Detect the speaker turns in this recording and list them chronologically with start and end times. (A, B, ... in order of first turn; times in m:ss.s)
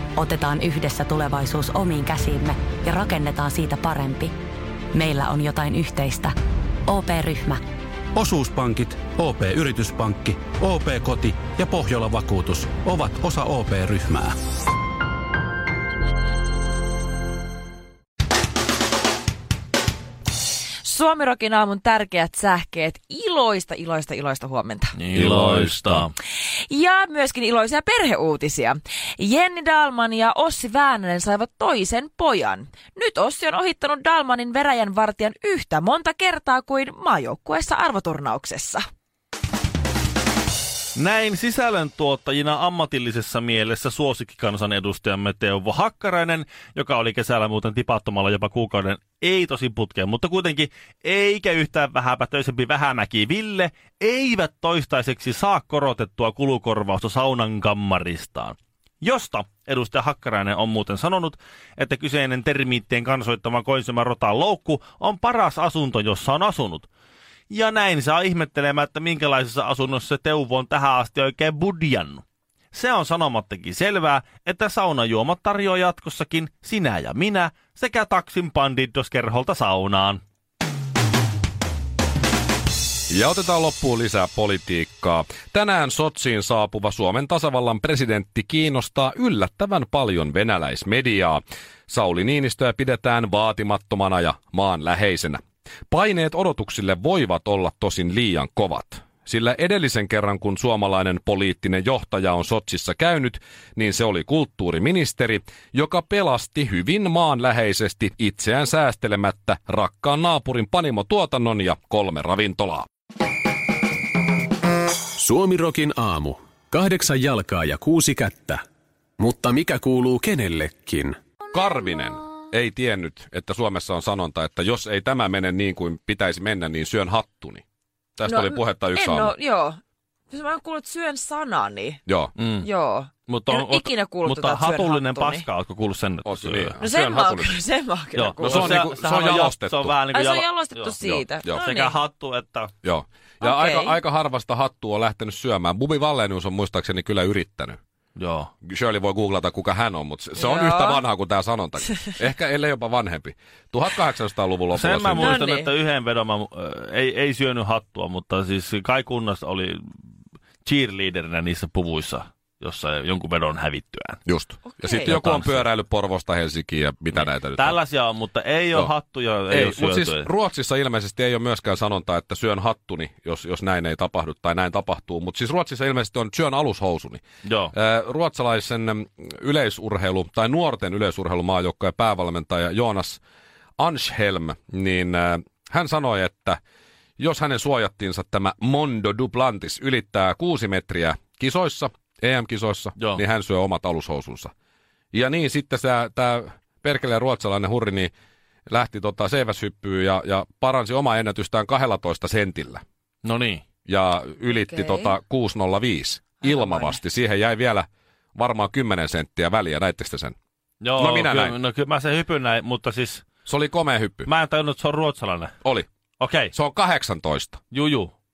0:00.2-0:04.3 A
0:04.9-0:06.4 A
0:06.9-0:07.6 A
0:08.1-0:14.4 B
0:20.8-0:25.0 C
0:25.0-0:26.1 D
0:25.1-0:26.1 E
0:26.4-0:38.9 C
0:41.0-1:06.9 D
1:07.5-1:20.2 D
1:23.1-1:52.9 E
1:55.1-1:58.6 F
1:59.2-2:01.2 F
2:01.5-2:07.6 E
2:08.2-2:09.3 E
2:08.3-2:12.0 C
2:12.1-2:12.3 E
2:12.4-2:12.7 D
2:12.6-2:15.4 C
2:13.3-2:16.8 D
2:16.3-2:17.6 E
2:16.8-2:18.8 C
2:18.2-2:21.0 D
2:18.4-2:20.0 E
2:20.1-2:22.0 C
2:21.0-2:21.6 E
2:21.5-2:22.7 D
2:22.8-2:27.8 E
2:23.4-2:24.0 C
2:28.2-2:28.5 D
2:28.6-2:35.4 E
2:30.4-2:31.0 C
2:34.7-2:39.9 D
2:35.2-2:35.7 C
2:40.6-2:44.2 D
2:44.3-2:47.8 E
2:44.7-2:45.1 C
2:45.1-2:45.6 D
2:47.1-2:50.3 D
2:49.5-3:03.2 E
2:57.4-2:57.7 D
3:03.8-3:06.6 E
3:07.2-3:14.5 E
3:13.0-3:13.2 D
3:15.1-3:18.1 E
3:18.7-3:22.8 E
3:23.2-3:23.6 D
3:23.9-3:30.4 E
3:24.5-3:25.2 C
3:26.4-3:27.0 C
3:30.8-3:33.3 D
3:31.0-3:31.6 E
3:33.5-3:34.3 E
3:34.3-3:35.5 D
3:36.2-3:36.5 D
3:36.5-3:37.6 E
3:37.7-3:38.1 D